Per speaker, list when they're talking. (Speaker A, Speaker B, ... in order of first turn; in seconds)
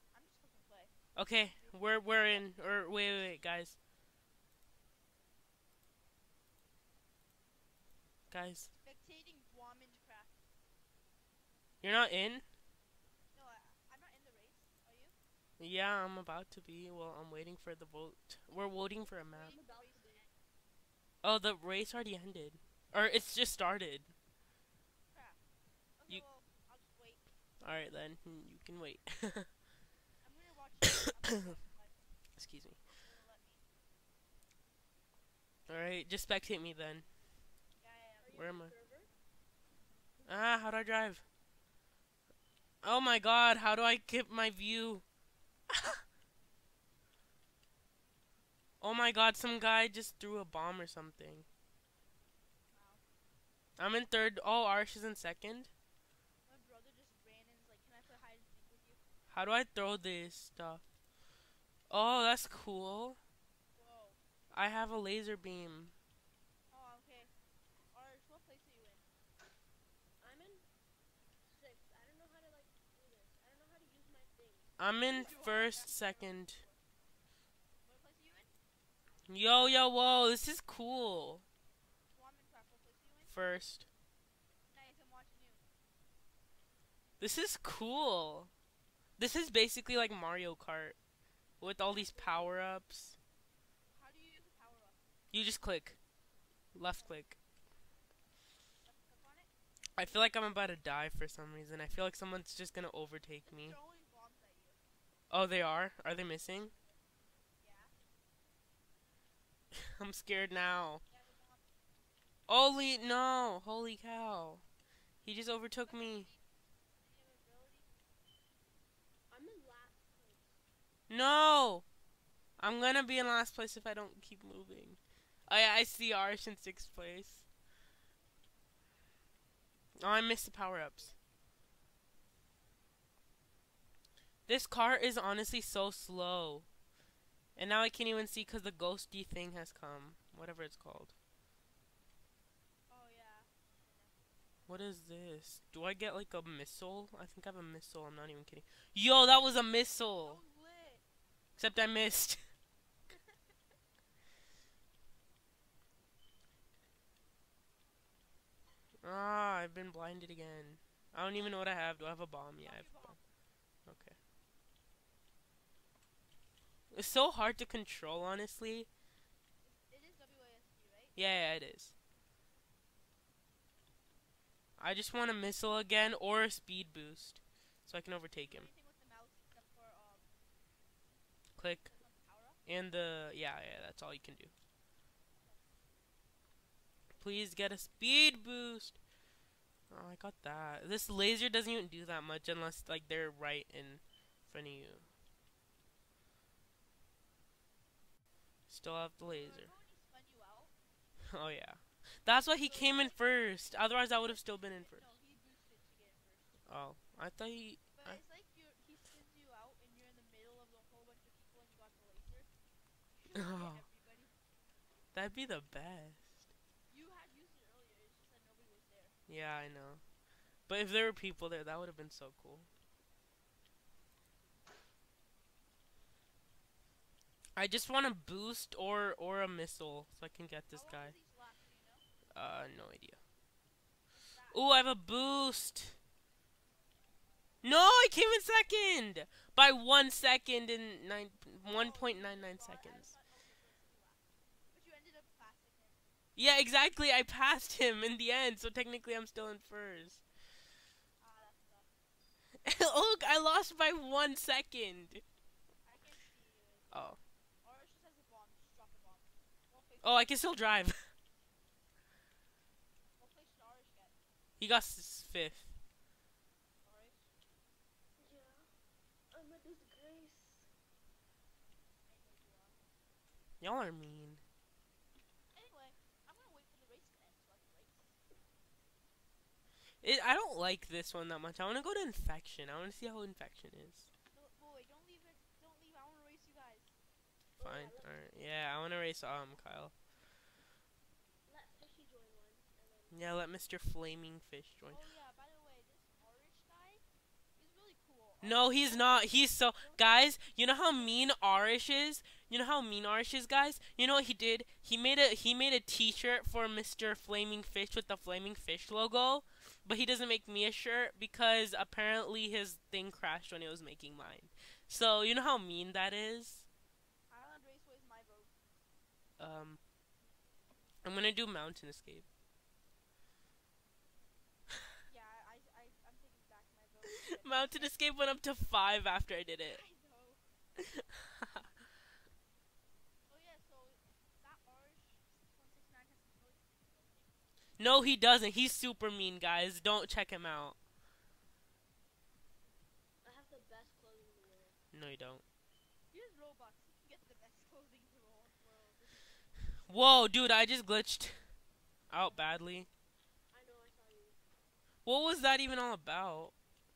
Speaker A: 0.1-0.9, 1.5-3.5, 8.7-10.4, 13.3-15.1, 18.7-20.4, 25.1-25.4, 26.0-27.2, 30.2-32.0, 32.9-33.6, 37.8-38.5, 52.7-53.0, 56.5-59.0, 63.7-64.2, 66.7-67.3, 67.9-69.0, 75.1-76.8, 77.8-78.5, 82.1-83.3, 84.7-85.6, 93.9-95.0, 98.8-99.5, 103.4-104.8, 107.6-107.9, 111.1-111.7, 115.8-116.4, 117.0-117.9, 142.9-144.1, 150.2-151.0, 162.6-163.2, 169.6-171.2, 178.4-180.2, 181.7-182.6, 185.4-185.7, 199.2-200.7, 202.6-203.3, 204.1-206.6, 207.9-212.5, 213.1-214.4, 216.9-219.2, 230.7-232.0, 234.2-234.6, 241.6-244.2, 244.7-246.0, 251.2-251.9, 255.8-260.4, 263.2-264.1, 266.8-267.3, 272.1-272.8, 275.5-278.1, 284.3-286.9, 294.9-297.0, 297.6-300.1, 300.9-301.5, 317.3-318.5, 325.1-327.9, 329.6-330.4, 333.3-337.3, 346.1-349.4, 352.2-352.4
Speaker B: 1.1-3.8, 8.3-8.7, 11.8-12.4, 15.6-19.5, 21.2-24.1, 27.6-29.5, 32.4-32.8, 35.7-37.0, 38.3-38.7, 40.3-41.2, 42.8-45.0, 45.7-46.0, 48.8-51.5, 53.8-55.7, 59.3-60.8, 61.9-63.2, 64.5-65.9, 74.8-76.6, 79.3-81.4, 83.3-83.9, 87.2-88.5, 89.2-91.0, 91.6-93.2, 95.3-96.0, 96.7-97.4, 100.0-103.8, 105.3-106.7, 109.7-111.0, 112.5-114.6, 115.2-116.3, 121.1-121.8, 122.6-127.4, 130.0-131.2, 134.5-136.7, 137.6-141.1, 144.7-150.4, 151.6-152.4, 159.0-163.2, 163.8-164.2, 166.9-168.9, 171.2-171.9, 174.8-178.7, 181.6-181.9, 182.7-184.5, 187.2-189.0, 189.9-195.1, 198.7-199.7, 201.2-205.0, 206.7-208.2, 213.3-213.8, 215.1-216.4, 219.3-220.0, 220.7-222.7, 227.6-231.1, 232.3-233.2, 234.5-236.0, 237.6-243.1, 246.3-250.2, 252.6-255.2, 256.9-257.2, 260.0-261.1, 264.6-265.7, 273.6-274.4, 280.0-284.1, 287.6-289.9, 293.1-295.0, 298.4-316.6, 319.4-319.8, 321.0-322.2, 327.2-329.8, 330.8-331.6, 337.8-340.8, 344.9-345.4, 349.9-351.4, 352.1-352.9, 355.0-356.5
Speaker C: 19.4-20.2, 38.2-39.1, 70.2-70.7, 71.4-74.7, 91.8-92.6, 119.3-120.6, 268.2-268.7, 269.3-270.7, 287.6-288.2, 291.4-293.2, 343.2-344.8, 353.5-354.4